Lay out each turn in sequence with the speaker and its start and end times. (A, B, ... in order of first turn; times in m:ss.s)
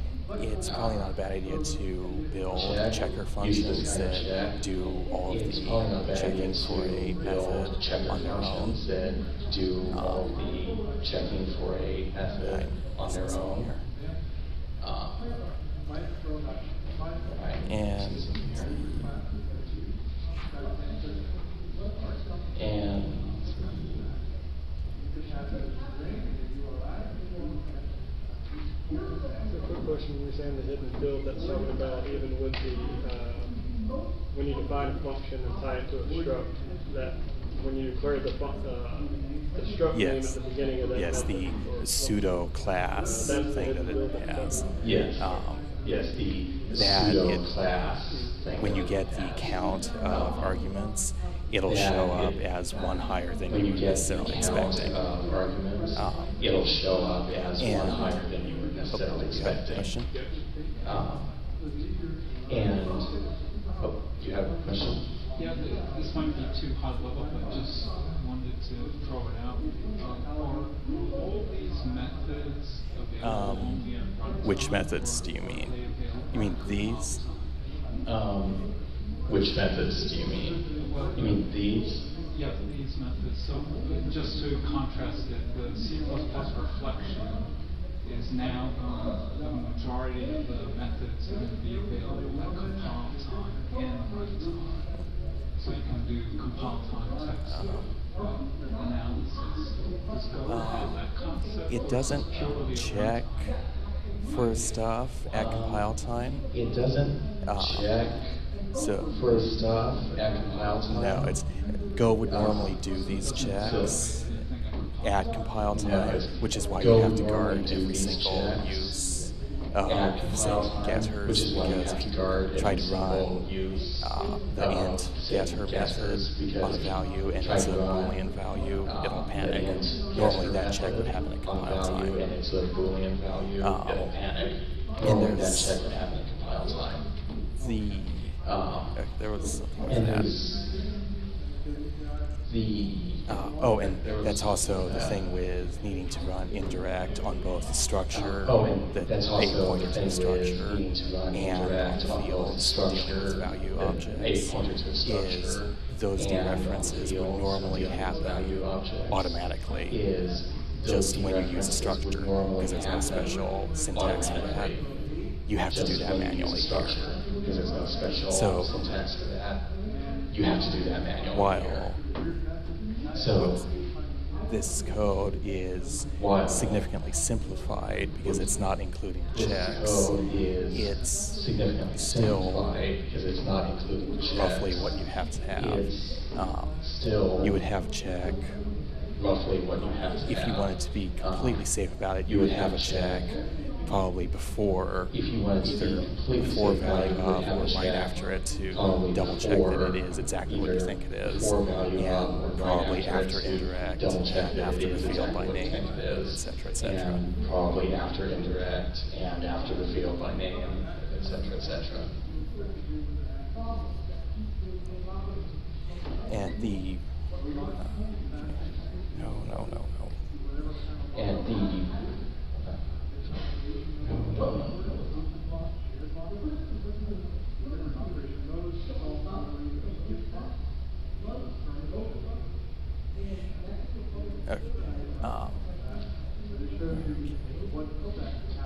0:00.3-0:08.8 A
0:00.7-0:01.1 B
0:02.5-0:04.6 B
0:05.3-0:13.7 B
0:09.9-0:10.3 A
0:12.4-0:13.9 A
0:14.8-0:15.6 B
0:17.2-0:18.8 B
0:17.6-0:19.2 A
0:22.5-0:24.2 B
0:29.5-0:33.6 C
0:34.3-0:42.3 C
0:39.9-0:40.4 A
0:40.9-0:45.7 A
0:42.9-0:44.8 C
0:44.8-0:45.3 B
0:45.8-0:49.5 B
0:46.7-0:47.5 A
0:48.6-0:55.0 A
0:50.0-0:50.5 B
0:51.7-0:52.4 B
0:53.5-1:00.0 B
0:56.0-0:56.4 A
0:57.6-0:58.2 A
0:58.9-1:00.1 A
1:00.8-1:01.4 B
1:02.5-1:03.1 B
1:03.8-1:05.1 B
1:05.4-1:17.6 D
1:13.2-1:13.9 A
1:14.4-1:15.8 A
1:16.3-1:17.2 A
1:18.0-1:18.7 B
1:19.3-1:20.6 B
1:20.7-1:21.5 D
1:21.1-1:22.1 B
1:22.3-1:27.5 D
1:28.0-1:35.0 D
1:35.6-1:43.6 D
1:37.4-1:37.9 A
1:40.4-1:41.1 A
1:41.7-1:43.6 A
1:44.2-1:46.5 A
1:44.3-1:44.8 D
1:45.3-1:45.9 B
1:46.5-1:48.4 B
1:47.4-1:48.0 A
1:48.7-1:49.2 A
1:49.0-1:51.3 B
1:50.9-1:54.3 A
1:52.3-1:52.8 B
1:53.0-1:55.5 D
1:53.6-1:54.0 B
1:55.0-2:03.4 A
1:55.7-1:59.3 B
1:59.9-2:08.2 B
2:04.0-2:12.2 A
2:08.8-2:17.1 B
2:13.6-2:14.1 A
2:15.0-2:15.8 A
2:17.6-2:18.4 A
2:18.4-2:19.0 B
2:18.9-2:20.3 A
2:19.9-2:20.8 B
2:22.5-2:25.3 B
2:23.3-2:40.0 A
2:28.1-2:44.9 B
2:40.8-2:44.8 A
2:45.5-2:47.1 A
2:45.7-2:49.7 B
2:48.3-2:48.8 A
2:50.3-2:51.9 B
2:51.3-2:52.0 A
2:53.1-2:53.6 B
2:53.3-2:53.7 A
2:54.5-3:02.7 A
2:56.2-2:56.9 B
2:58.2-2:58.5 B
2:59.3-3:04.8 B
3:04.3-3:06.8 A
3:05.6-3:06.2 B
3:06.8-3:07.6 B
3:07.4-3:08.6 A
3:09.2-3:11.7 B
3:10.2-3:27.2 A
3:12.2-3:13.3 B
3:15.1-3:18.2 B
3:18.7-3:32.1 B
3:36.3-3:37.2 A
3:37.7-3:40.3 A
3:41.1-3:42.0 B
3:42.6-3:44.9 B
3:54.4-3:55.8 A
3:56.9-3:57.7 A